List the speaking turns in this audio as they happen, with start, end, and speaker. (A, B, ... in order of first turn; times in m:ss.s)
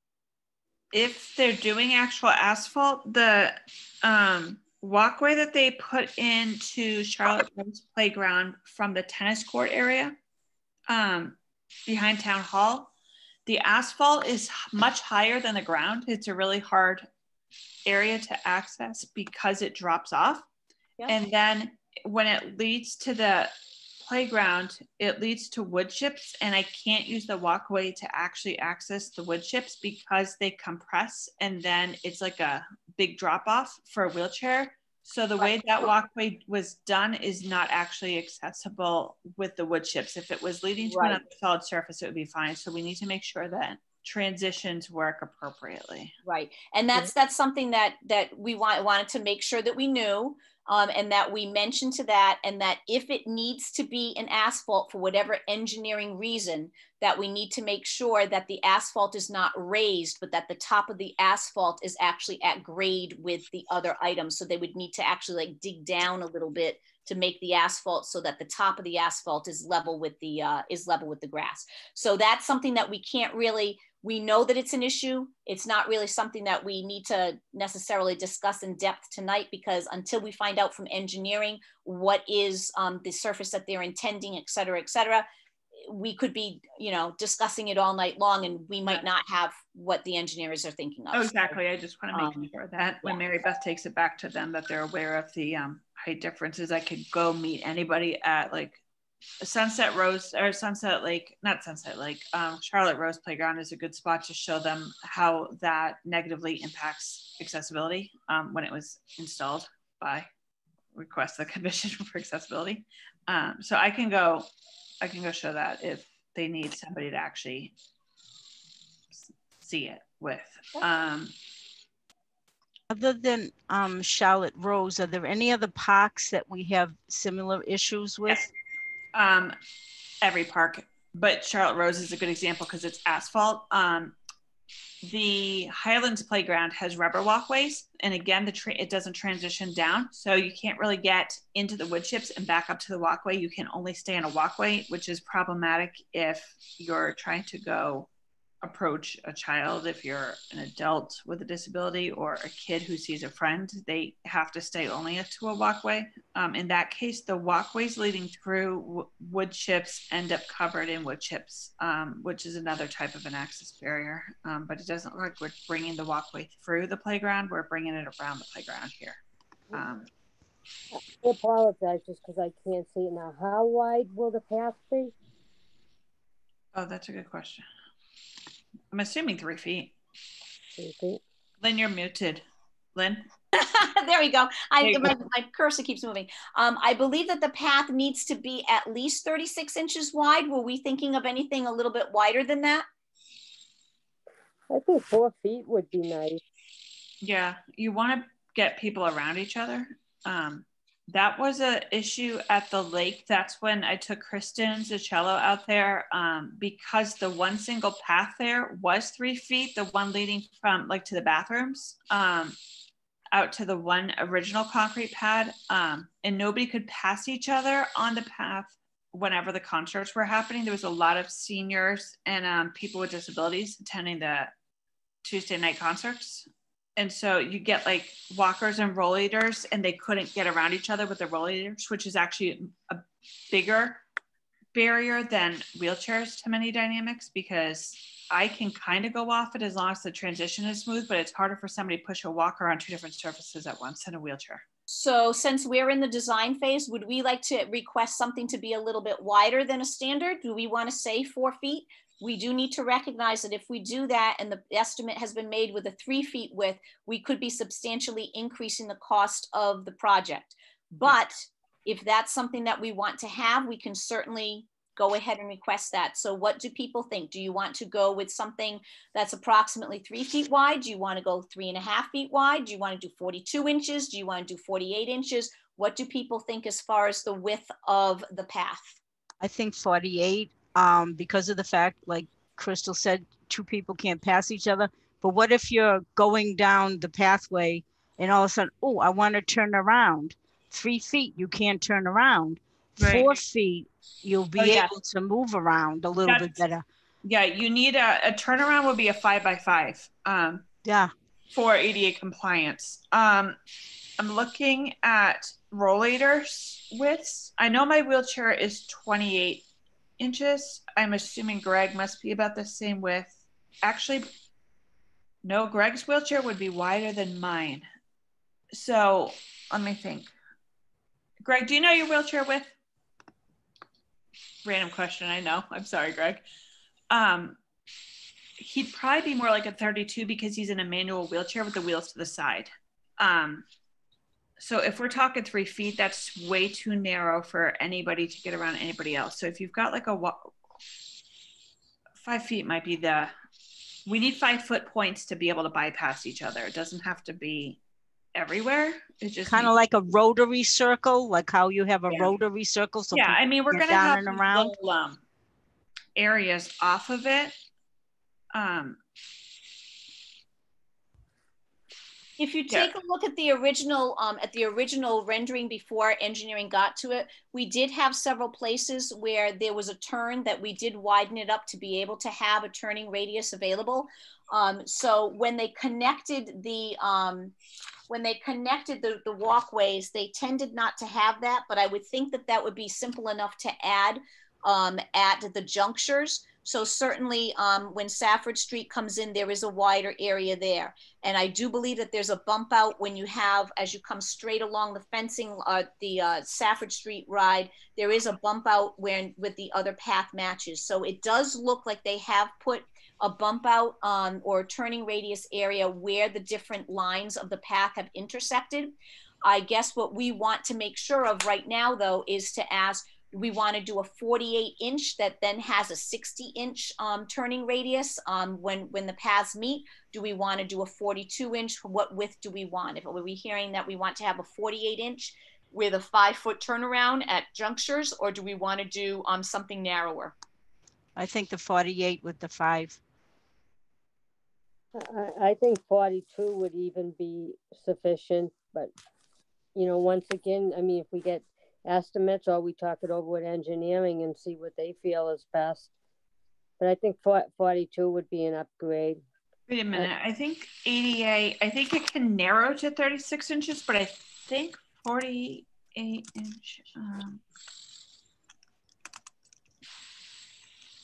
0:00.9-0:10.2 A
0:10.9-0:12.9 A
0:13.4-0:17.1 A
0:17.9-0:20.5 A
0:21.1-0:46.1 A
0:35.4-0:35.6 B
0:40.9-0:41.2 B
0:46.2-1:25.3 B
1:25.9-1:31.6 B
1:31.1-1:38.8 A
1:32.1-1:32.5 B
1:39.4-1:50.3 A
1:50.9-1:57.7 A
1:59.1-2:01.3 A
2:02.9-2:08.5 C
2:09.1-2:09.6 A
2:10.2-2:14.2 A
2:15.0-2:28.1 A
2:28.6-2:49.2 A
2:49.7-2:50.1 A
2:50.9-2:55.1 D
2:56.7-2:57.6 A
2:58.9-2:59.9 A
3:00.8-3:01.2 D
3:01.6-3:02.4 A
3:02.9-3:03.2 A
3:03.5-3:12.9 B
3:04.8-3:05.1 A
3:14.7-3:16.4 D
3:17.2-3:32.6 A
3:33.3-3:44.5 A
3:45.2-3:54.0 A
3:54.7-4:04.6 A
4:04.9-4:39.0 B
4:39.4-4:56.8 C
4:53.0-4:53.4 A
4:54.6-4:54.9 A
4:56.2-4:56.5 A
4:57.2-5:00.6 A
5:00.8-5:01.1 C
5:01.5-5:03.6 A
5:04.2-5:09.6 A
5:10.2-5:14.3 A
5:15.4-5:17.9 A
5:18.7-5:20.3 A
5:21.4-5:22.7 A
5:24.6-5:26.4 A
5:27.1-5:27.6 A
5:28.6-5:33.7 A
5:34.6-5:40.5 A
5:42.2-5:43.3 A
5:44.0-5:47.8 A
5:48.3-5:49.7 A
5:49.4-5:54.7 C
5:52.1-5:52.3 A
5:53.1-5:55.2 A
5:56.2-5:57.6 A
5:58.5-5:59.0 A
6:02.4-6:17.5 B
6:18.1-7:10.3 B
7:11.2-7:13.0 C
7:15.0-7:18.9 D
7:19.7-7:25.9 D
7:26.8-7:29.2 D
7:29.7-7:37.4 A